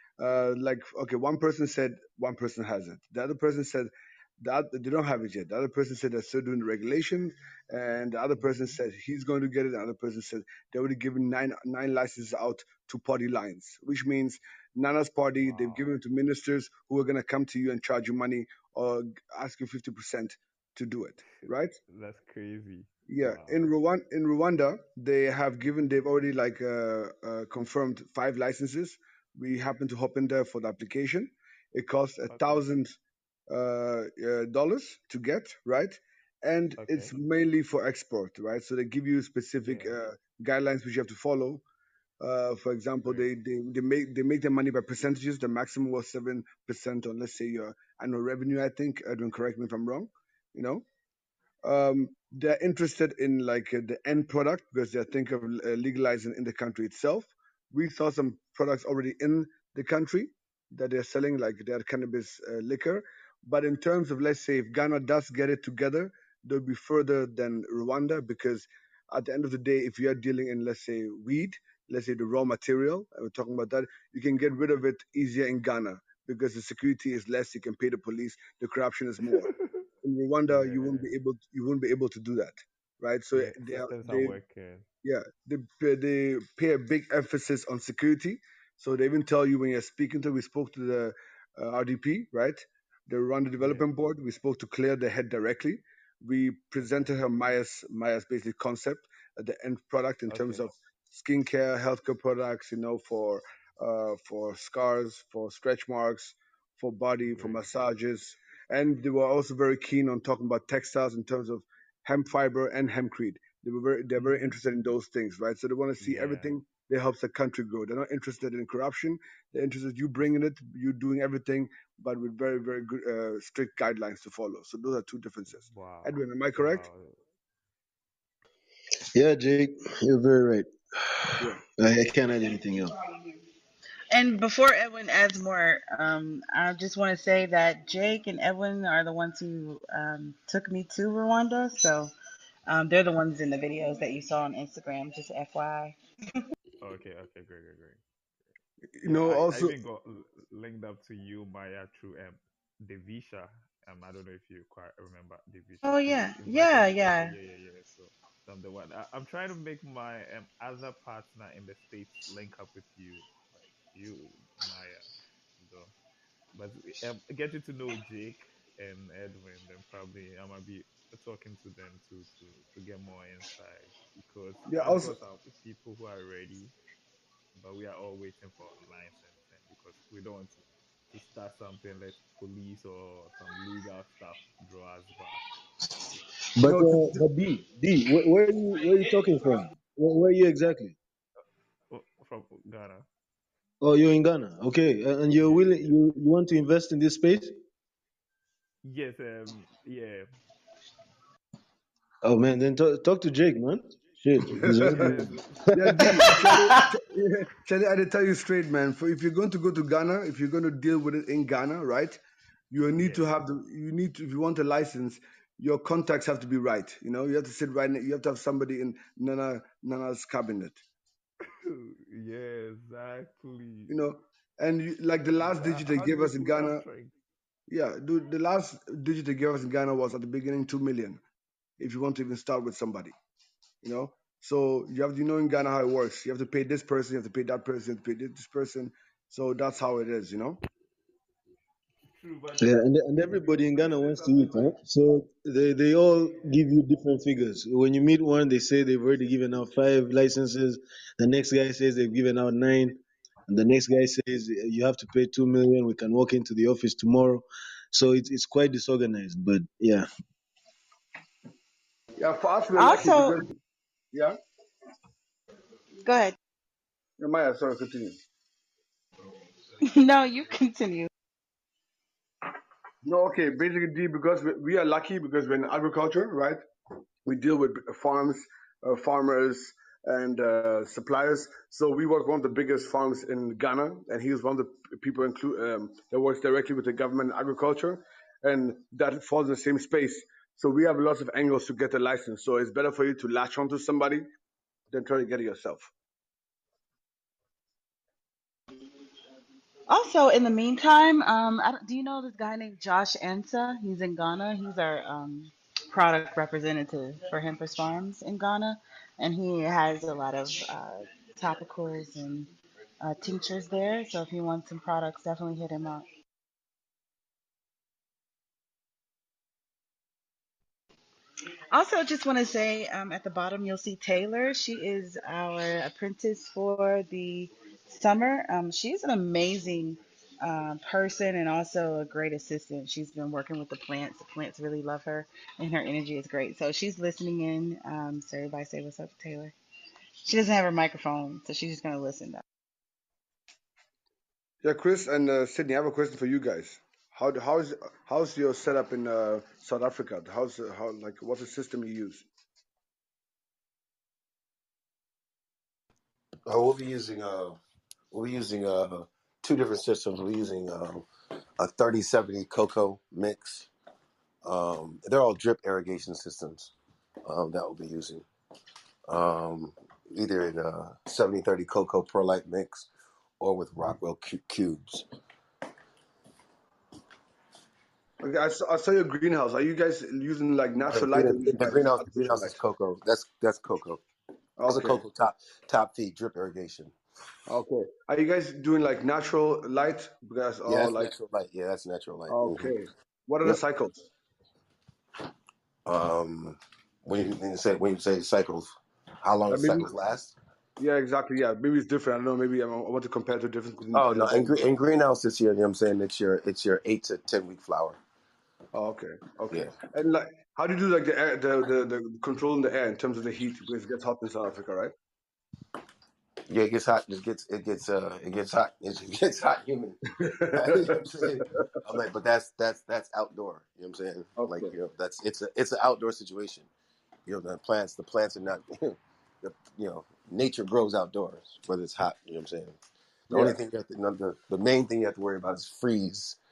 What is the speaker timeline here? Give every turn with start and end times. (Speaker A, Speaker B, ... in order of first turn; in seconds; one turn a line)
Speaker A: 0.2-21.8
Speaker B: 15.4-16.0
Speaker B: 21.3-23.7
Speaker A: 23.1-33.0
Speaker B: 32.3-32.7
Speaker A: 33.5-41.6
Speaker B: 36.8-37.2
Speaker B: 39.6-40.0
Speaker A: 42.2-50.8
Speaker B: 43.0-43.3
Speaker A: 51.6-79.5
Speaker B: 79.2-79.7
Speaker A: 80.0-84.3
Speaker B: 80.5-81.1
Speaker B: 83.3-84.9
Speaker A: 85.0-126.8
Speaker B: 93.6-93.9
Speaker B: 100.3-100.7
Speaker B: 107.2-107.7
Speaker B: 114.2-114.6
Speaker B: 116.0-116.6
Speaker B: 125.5-127.2
Speaker C: 129.1-132.9
Speaker D: 134.1-142.1
Speaker D: 142.7-145.9
Speaker B: 146.8-148.0
Speaker A: 149.0-149.8
Speaker B: 149.0-165.9
Speaker D: 155.8-157.3
Speaker B: 166.5-176.7
Speaker A: 174.7-175.2
Speaker B: 177.6-185.4
Speaker C: 186.6-190.9
Speaker A: 186.6-187.2
Speaker B: 191.9-193.1
Speaker C: 193.8-197.6
Speaker B: 195.3-195.9
Speaker B: 198.8-200.3
Speaker C: 202.2-206.2
Speaker A: 204.6-212.2
Speaker B: 204.9-205.6
Speaker D: 206.0-206.6
Speaker A: 212.7-220.8
Speaker B: 213.0-213.3
Speaker B: 221.6-224.0
Speaker A: 223.9-226.8
Speaker B: 225.3-227.1
Speaker A: 227.7-231.2
Speaker A: 231.8-233.1
Speaker A: 233.8-240.6
Speaker B: 242.2-244.9
Speaker C: 242.6-260.1
Speaker A: 262.2-263.5
Speaker D: 262.8-263.4
Speaker A: 264.1-264.4
Speaker D: 266.0-266.4
Speaker A: 267.2-268.2
Speaker D: 269.8-271.1
Speaker A: 273.0-276.6
Speaker A: 277.2-294.2
Speaker A: 294.9-295.9
Speaker D: 299.9-316.1
Speaker D: 321.7-339.5
Speaker D: 340.2-342.4
Speaker A: 344.6-352.2
Speaker E: 356.4-357.6
Speaker E: 358.1-361.1
Speaker E: 361.6-363.7
Speaker E: 364.4-366.7
Speaker E: 367.2-368.2
Speaker E: 369.1-372.9
Speaker E: 373.4-375.1
Speaker A: 378.2-382.6
Speaker E: 380.9-384.0
Speaker A: 384.6-385.0
Speaker E: 384.6-386.9
Speaker A: 387.5-391.1
Speaker E: 390.7-392.7
Speaker A: 392.3-394.0
Speaker E: 395.9-400.3
Speaker A: 399.5-399.9
Speaker A: 400.8-404.6
Speaker E: 403.9-408.0
Speaker A: 408.7-414.9
Speaker E: 416.5-426.7
Speaker A: 420.1-421.6
Speaker A: 424.4-424.7
Speaker E: 427.2-432.8
Speaker E: 433.3-436.4
Speaker A: 433.3-433.6